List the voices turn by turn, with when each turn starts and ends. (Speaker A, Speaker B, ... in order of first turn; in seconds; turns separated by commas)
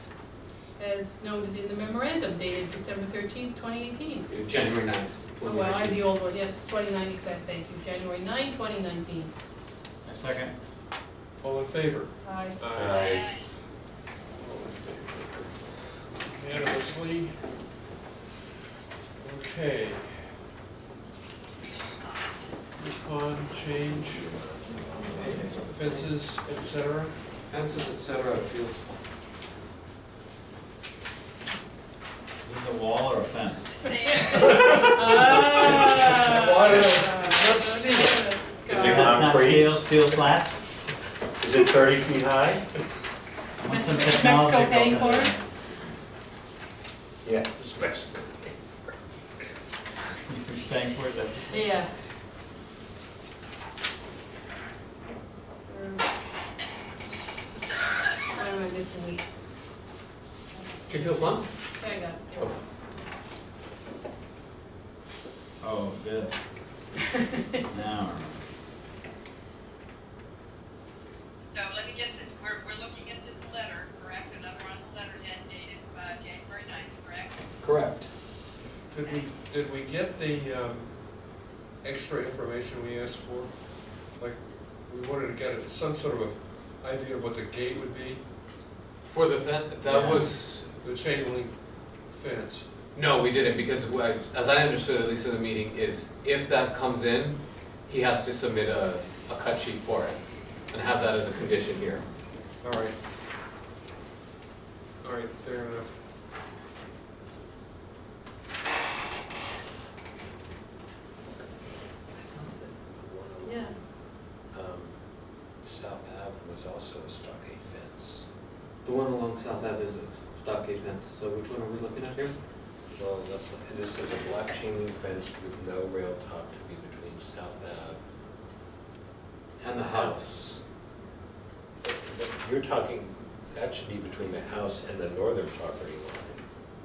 Speaker A: 0.8-4.3, Speaker B: 4.3-6.0, Speaker A: 5.4-9.3, Speaker C: 10.0-10.5, Speaker D: 11.4-13.3, Speaker A: 12.2-12.6, Speaker E: 12.7-13.2, Speaker F: 12.8-13.5, Speaker D: 14.3-17.5, Speaker D: 19.2-20.4, Speaker F: 21.6-22.4, Speaker D: 22.8-24.3, Speaker E: 23.7-25.7, Speaker C: 24.9-26.1, Speaker D: 25.6-27.3, Speaker B: 27.5-28.8, Speaker C: 32.4-33.8, Speaker F: 33.8-34.8, Speaker A: 33.8-39.1, Speaker D: 34.3-38.6, Speaker E: 38.7-40.2, Speaker C: 38.7-40.6, Speaker E: 41.4-42.7, Speaker C: 43.6-45.4, Speaker A: 43.6-45.4, Speaker E: 47.2-48.8, Speaker C: 50.3-51.6, Speaker A: 51.5-52.0, Speaker A: 55.7-56.1, Speaker A: 58.3-59.2, Speaker A: 60.7-62.6, Speaker B: 60.9-61.8, Speaker C: 65.6-66.4, Speaker A: 67.4-67.6, Speaker C: 67.7-68.4, Speaker F: 71.4-77.4, Speaker B: 77.6-78.1, Speaker D: 78.9-88.2, Speaker F: 79.0-79.3, Speaker B: 89.0-90.7, Speaker C: 89.9-90.2, Speaker D: 89.9-92.7, Speaker B: 92.9-102.0, Speaker D: 102.6-103.0, Speaker D: 105.0-106.0, Speaker E: 112.1-118.2, Speaker B: 118.8-122.3, Speaker E: 122.9-128.0, Speaker B: 129.6-130.3, Speaker E: 129.8-130.6, Speaker E: 131.8-136.4